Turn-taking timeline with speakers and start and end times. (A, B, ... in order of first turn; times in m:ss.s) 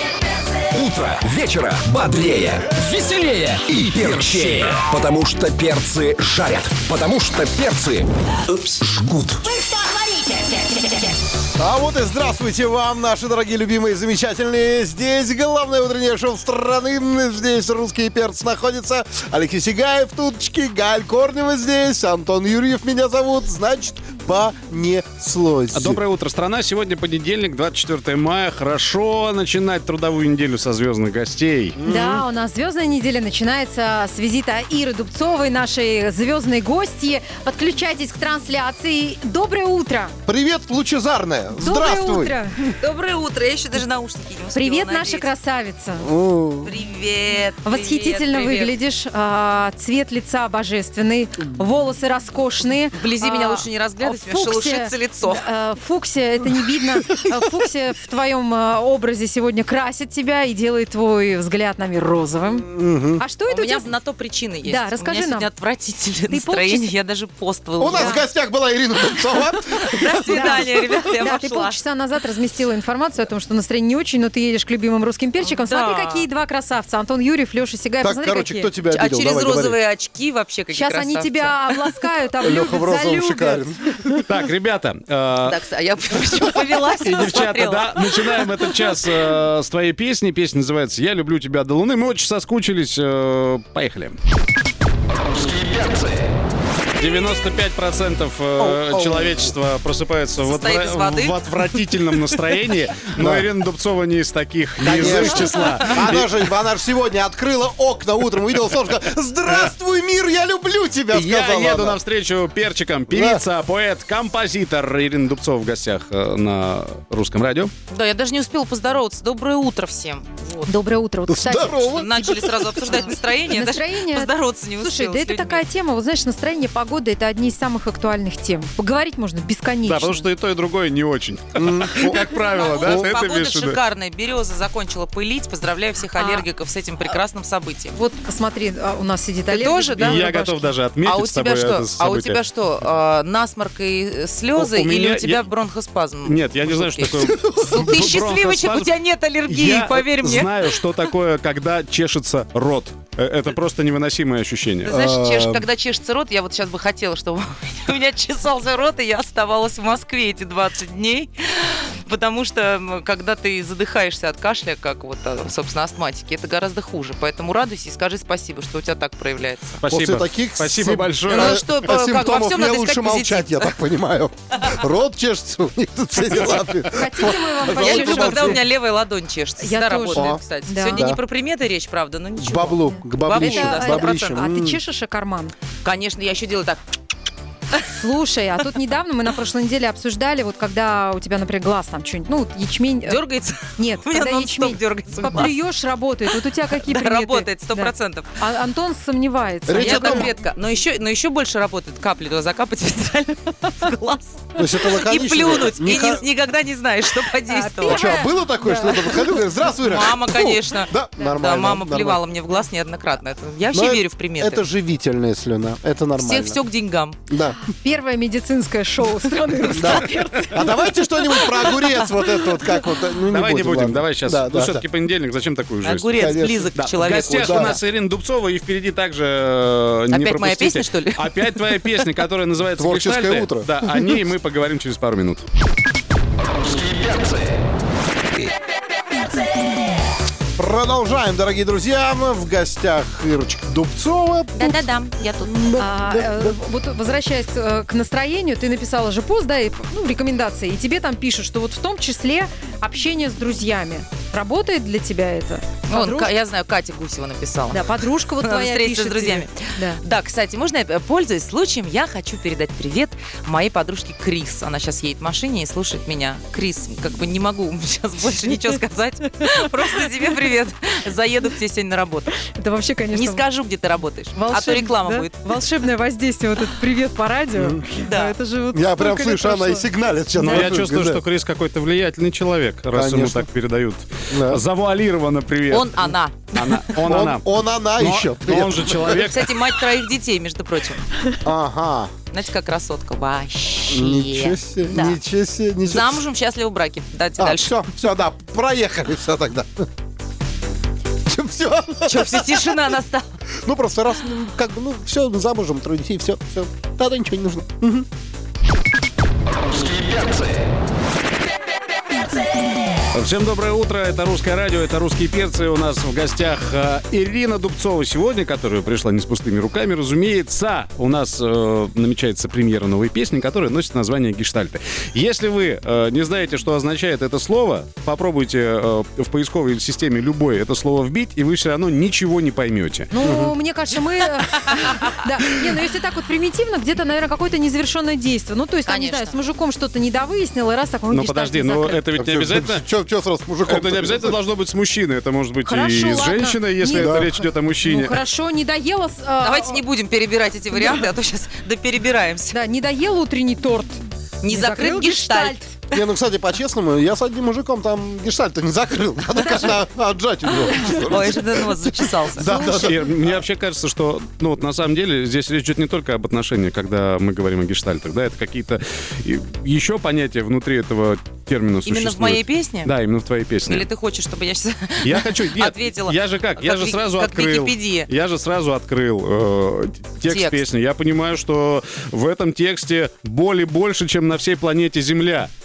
0:00.7-0:09.7 A
0:11.6-0:26.0 B
0:25.7-0:31.7 C
0:31.8-0:32.2 B
0:31.8-0:40.1 D
0:40.2-0:42.4 B
0:41.6-0:42.6 D
0:42.7-0:45.3 E
0:44.5-0:46.1 D
0:46.0-0:46.7 B
0:46.6-0:48.8 E
0:47.6-1:03.9 D
0:53.0-0:55.4 E
1:02.5-1:03.2 B
1:03.5-1:08.3 E
1:04.6-1:05.5 D
1:06.3-1:06.9 D
1:07.8-1:11.0 B
1:07.9-1:08.2 D
1:09.3-1:11.8 E
1:10.2-1:18.7 D
1:15.4-1:16.3 E
1:18.0-1:19.8 B
1:18.9-1:21.8 E
1:20.7-1:24.1 D
1:22.4-1:24.2 B
1:24.3-1:25.6 C
1:25.4-1:28.8 E
1:27.0-1:34.2 C
1:35.5-1:36.3 A
1:37.0-1:46.3 C
1:38.6-1:39.5 B
1:40.4-1:42.4 E
1:43.2-1:43.5 B
1:44.8-1:52.0 B
1:51.1-1:57.7 C
1:53.1-1:53.4 B
1:57.9-2:00.7 E
2:00.6-2:01.9 D
2:01.3-2:02.7 B
2:01.9-2:05.6 E
2:03.5-2:10.3 D
2:09.8-2:13.8 C
2:11.6-2:13.1 B
2:12.4-2:18.0 E
2:16.1-2:16.4 D
2:17.9-2:20.7 D
2:19.5-2:20.3 E
2:20.0-2:22.4 C
2:21.0-2:30.8 E
2:24.6-2:25.4 C
2:26.2-2:28.9 C
2:27.2-2:27.9 B
2:29.5-2:34.9 C
2:34.8-2:49.8 E
2:34.8-2:35.6 B
2:49.8-2:51.5 C
2:49.9-2:58.6 B
2:51.3-2:53.8 E
2:54.6-2:54.8 E
2:56.8-2:58.6 D
2:57.5-3:04.4 E
2:59.6-3:01.1 D
3:00.1-3:01.2 B
3:02.4-3:04.8 B
3:03.4-3:05.5 D
3:05.8-3:06.8 E
3:07.9-3:20.3 D
3:13.0-3:15.5 E
3:16.3-3:18.3 E
3:19.6-3:20.3 B
3:19.8-3:28.3 E
3:24.6-3:26.2 B
3:27.5-3:29.3 D
3:27.8-3:32.2 B
3:29.8-3:34.6 E
3:33.7-3:36.6 B
3:36.2-3:37.2 E
3:37.3-3:37.6 B
3:37.7-3:40.7 D
3:39.7-3:44.8 B
3:43.3-3:46.2 C
3:45.8-3:47.8 E
3:46.2-3:47.8 B
3:46.8-3:55.4 C
3:50.1-3:51.9 E
3:52.8-3:54.2 B
3:56.8-3:57.4 A
4:00.6-4:04.8 B
4:04.5-4:05.8 E
4:05.4-4:06.6 B
4:05.8-4:16.3 D
4:15.9-4:32.3 E
4:17.7-4:20.0 D
4:32.4-4:33.4 D
4:33.1-4:35.5 E
4:34.4-4:40.8 D
4:37.5-4:37.9 B
4:38.0-4:38.3 E
4:38.7-4:41.2 B
4:40.4-4:46.0 C
4:42.9-4:43.5 B
4:44.3-4:44.6 B
4:45.7-4:47.0 E
4:46.5-4:47.4 C
4:47.0-4:49.3 B
4:48.0-4:49.5 C
4:49.3-4:51.1 E
4:51.4-4:52.1 B
4:52.3-4:55.2 E
4:53.9-4:56.2 B
4:55.8-4:57.9 E
4:57.4-4:59.8 B
5:01.3-5:02.8 B
5:02.0-5:03.3 E
5:03.6-5:08.1 B
5:13.1-5:33.1 C
5:33.1-5:42.0 D
5:33.2-5:33.5 B
5:38.8-5:39.4 E
5:41.1-5:42.8 C
5:42.1-5:44.4 B
5:43.7-5:48.2 C
5:45.6-5:49.8 D
5:46.8-5:47.2 B
5:49.4-5:52.6 E
5:50.8-5:51.0 D
5:52.5-5:55.7 D
5:54.4-5:56.0 E
5:55.9-6:03.4 B
6:00.7-6:02.8 E
6:02.7-6:13.8 C
6:11.8-6:12.9 E
6:13.6-6:18.1 E
6:15.0-6:25.5 C
6:20.2-6:20.6 E